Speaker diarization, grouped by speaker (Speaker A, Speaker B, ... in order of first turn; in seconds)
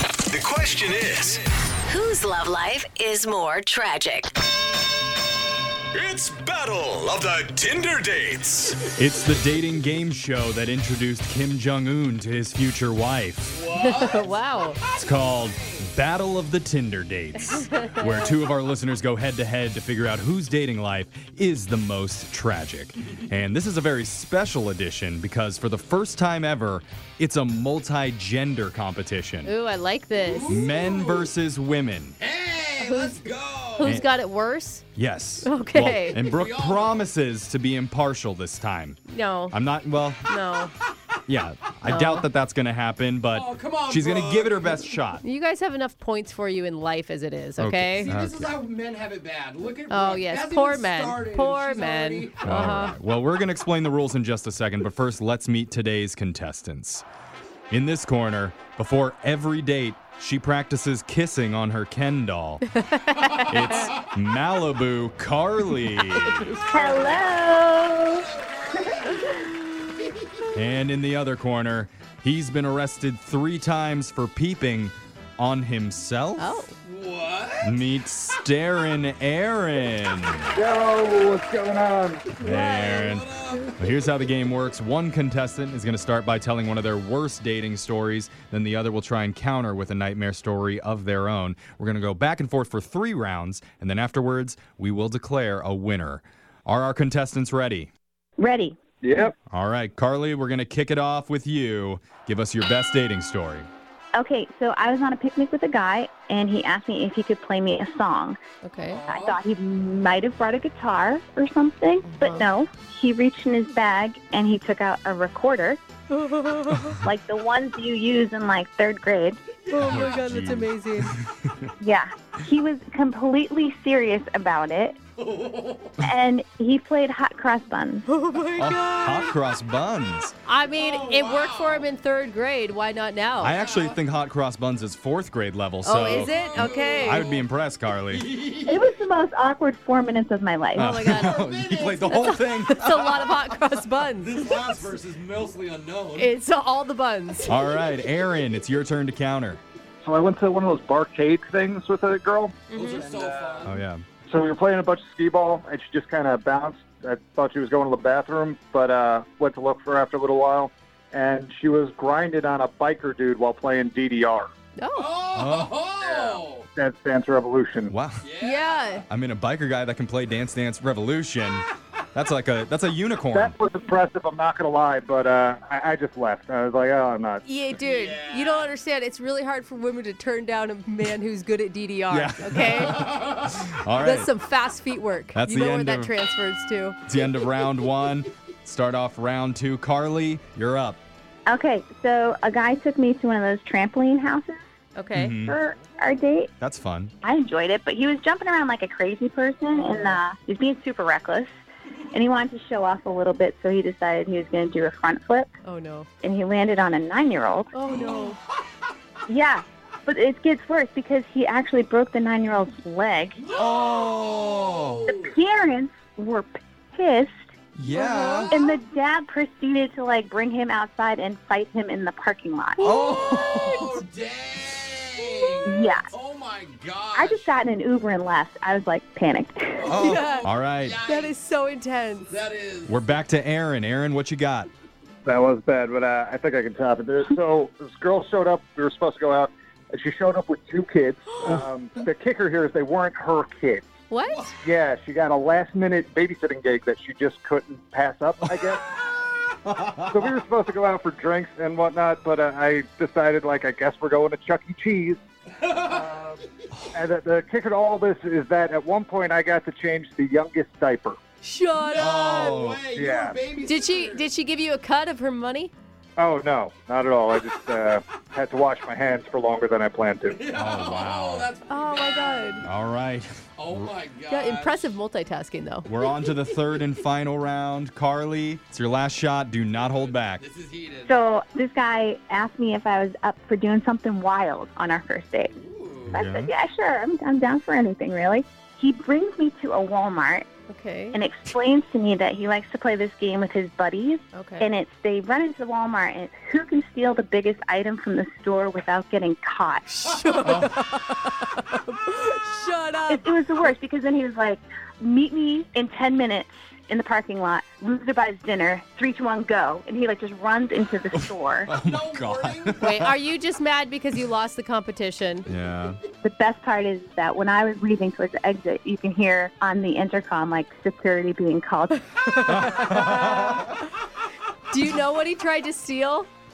Speaker A: 0.3-1.4, 5.9-8.9
Speaker B: 1.9-4.3
Speaker C: 8.8-13.6, 15.0-29.5, 30.5-32.2, 33.8-34.1, 34.9-39.0, 39.5-40.2, 41.3-45.2, 47.6-48.5, 52.4-57.0, 57.7-62.6, 63.5-66.5, 70.5-76.6, 77.6-80.5, 82.4-97.9, 99.5-103.7, 119.8-121.7, 128.6-130.3, 133.4-138.2, 140.7-143.1, 147.5-149.6, 153.6-154.0, 165.3-165.7, 167.9-168.3, 169.1-173.5, 182.1-184.3, 185.3-186.1, 187.1-191.0, 195.1-195.6, 196.6-197.1, 213.5-215.0, 217.8-218.5, 222.8-223.8, 229.9-230.9, 232.8-234.7, 262.0-262.8, 270.5-271.5, 272.6-273.9, 275.9-280.4, 286.1-286.5, 311.7-313.1, 315.5-316.0, 322.4-323.6
Speaker D: 13.5-15.8, 30.1-31.3, 32.2-34.0, 36.1-37.0, 43.3-44.8, 48.0-52.5, 63.3-64.0, 66.5-67.3, 68.3-69.3, 76.8-77.8, 82.9-83.7, 108.8-109.4, 119.7-120.2, 125.2-126.0, 130.7-131.9, 133.6-134.0, 136.1-137.5, 138.1-138.9, 141.0-142.4, 144.2-146.3, 152.7-153.8, 164.9-166.7, 168.2-169.0, 177.8-178.7, 182.8-183.3, 207.9-208.4, 213.4-215.3, 222.8-227.4, 229.8-231.3, 232.3-233.0, 255.6-256.2, 261.7-264.3, 270.3-272.6, 273.6-274.9, 279.8-281.1, 285.5-286.2, 311.8-313.0
Speaker E: 13.7-14.8, 17.4-18.4, 29.4-30.5, 32.8-33.2, 33.8-34.8, 35.4-36.2, 39.1-39.5, 40.2-40.7, 41.8-42.3, 45.2-48.1, 49.9-52.9, 62.8-63.9, 76.4-76.7, 82.4-83.7, 108.6-109.0, 112.1-112.4, 116.1-117.0, 119.7-121.1, 128.1-129.3, 130.4-133.6, 135.8-137.3, 140.8-141.4, 142.1-144.7, 146.1-147.6, 152.7-153.1, 164.8-165.2, 168.4-169.1, 177.4-183.2, 183.9-187.0, 194.9-195.4, 199.7-200.2, 205.6-206.1, 207.7-208.4, 217.9-218.5, 229.9-230.4, 231.0-232.3, 241.3-241.6, 244.1-244.5, 261.4-262.5, 263.6-265.7, 271.7-272.6, 274.3-275.9, 290.7-291.2, 294.3-294.7, 299.9-303.3, 312.8-315.5, 322.1-323.8, 324.7-326.3
Speaker F: 66.7-69.5, 98.4-98.8, 104.2-108.4, 109.1-115.8, 117.0-119.4, 121.8-125.0, 126.0-128.1, 138.7-140.9, 191.5-194.6, 195.4-196.5, 197.2-201.5, 202.1-205.5, 206.2-207.7, 209.3-213.4, 215.1-217.3, 218.5-222.9, 225.6-226.1, 227.1-230.0, 281.0-285.6, 286.1-290.5, 291.1-299.9, 303.1-311.7, 316.2-322.0
Speaker G: 80.5-82.3, 99.0-99.3, 150.0-153.7, 154.3-164.5, 166.0-167.9, 173.3-177.4, 235.2-243.9, 244.6-248.9, 249.9-255.2, 255.7-256.4, 256.9-261.2, 262.9-263.4, 266.2-270.6